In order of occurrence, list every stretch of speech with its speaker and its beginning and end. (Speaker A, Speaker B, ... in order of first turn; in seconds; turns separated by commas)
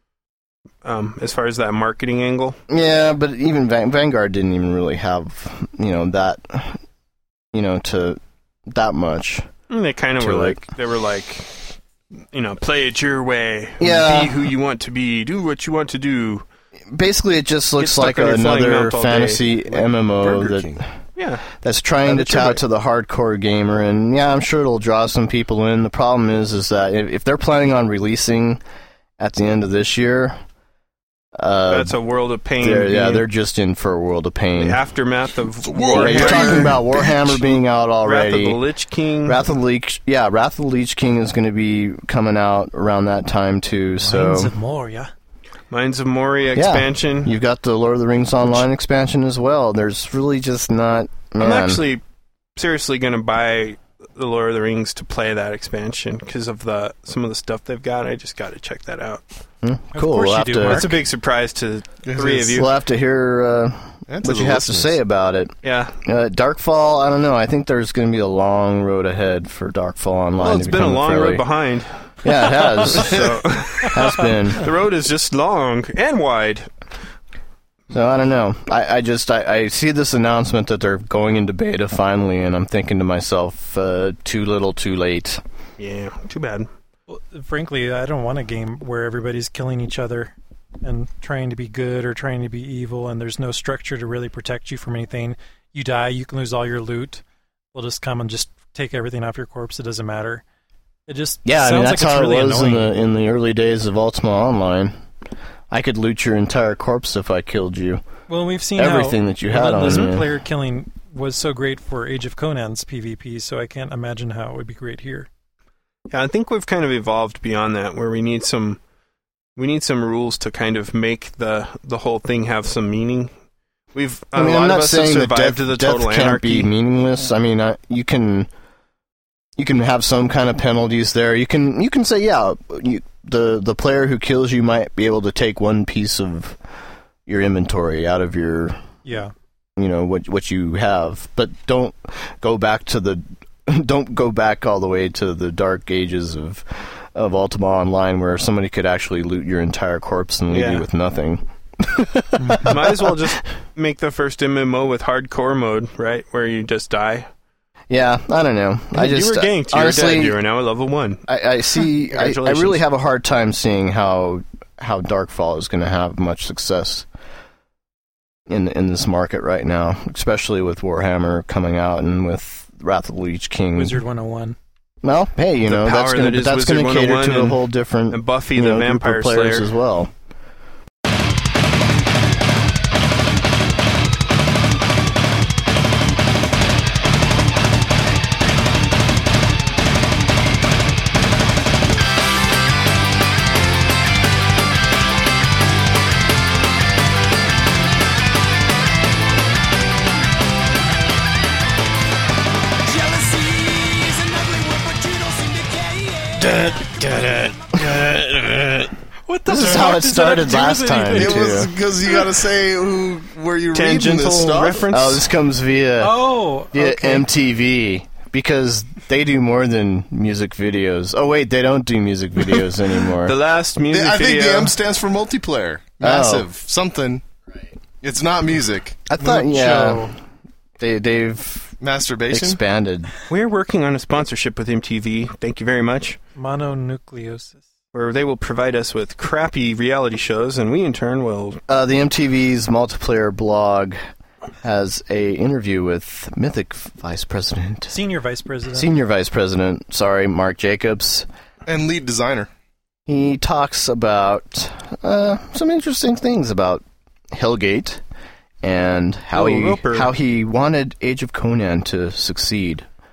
Speaker A: 0.8-2.6, Speaker B: 2.7-6.8, Speaker B: 7.5-9.5, Speaker A: 9.7-11.5, Speaker B: 10.2-10.6, Speaker A: 12.3-16.4, Speaker B: 13.8-14.5, Speaker B: 16.9-20.8, Speaker A: 17.8-19.4, Speaker C: 19.7-20.8, Speaker A: 21.1-21.5, Speaker B: 21.6-28.6, Speaker A: 22.0-22.6, Speaker B: 29.2-30.4, Speaker B: 31.4-31.9, Speaker A: 31.7-33.2, Speaker B: 32.6-34.8, Speaker A: 34.6-37.1, Speaker C: 35.6-37.3, Speaker B: 35.9-38.6, Speaker A: 38.0-39.4, Speaker B: 39.2-44.5, Speaker D: 44.0-45.1, Speaker A: 45.7-47.3, Speaker B: 46.5-51.8, Speaker A: 51.4-52.0, Speaker A: 52.5-59.2, Speaker B: 59.6-60.9, Speaker D: 59.9-61.0, Speaker A: 60.6-62.7, Speaker C: 62.0-62.6, Speaker B: 62.5-71.4, Speaker C: 64.1-65.0, Speaker A: 65.6-66.0, Speaker A: 70.4-76.7, Speaker B: 72.2-73.3, Speaker B: 73.8-74.7, Speaker B: 77.9-85.4, Speaker A: 85.8-86.7, Speaker D: 87.1-97.2, Speaker D: 97.7-100.4, Speaker D: 101.1-102.9, Speaker B: 101.4-104.9, Speaker B: 105.7-108.0, Speaker D: 108.3-115.3, Speaker B: 108.8-110.3, Speaker A: 109.8-110.1, Speaker A: 116.1-118.8, Speaker A: 119.5-123.3, Speaker A: 123.9-126.7, Speaker B: 124.3-128.5, Speaker B: 129.6-136.6, Speaker B: 137.2-138.8, Speaker D: 139.0-139.3, Speaker B: 139.8-153.3, Speaker A: 150.5-150.8, Speaker A: 152.6-157.3, Speaker B: 157.9-160.4, Speaker A: 158.9-161.2, Speaker B: 161.3-167.1, Speaker A: 161.9-162.8, Speaker B: 168.5-174.0, Speaker D: 173.7-174.6, Speaker B: 175.0-180.1, Speaker A: 175.7-179.7, Speaker D: 202.8-206.9, Speaker B: 206.4-208.9, Speaker D: 209.2-211.6, Speaker B: 209.4-211.7, Speaker C: 211.1-214.8, Speaker A: 213.7-215.3, Speaker B: 214.9-223.3, Speaker D: 216.0-217.3, Speaker A: 223.2-224.7, Speaker C: 223.9-227.2, Speaker B: 226.0-226.5, Speaker C: 228.0-230.1, Speaker B: 229.1-230.1, Speaker B: 230.8-231.8, Speaker C: 231.8-232.6, Speaker B: 232.3-233.1, Speaker A: 233.3-236.2, Speaker D: 236.4-237.6, Speaker A: 237.9-241.6, Speaker B: 241.7-244.0, Speaker B: 244.6-247.9, Speaker D: 247.9-248.9, Speaker B: 248.7-251.3, Speaker C: 251.7-252.5, Speaker B: 253.1-258.0, Speaker B: 258.6-262.9, Speaker A: 259.3-260.1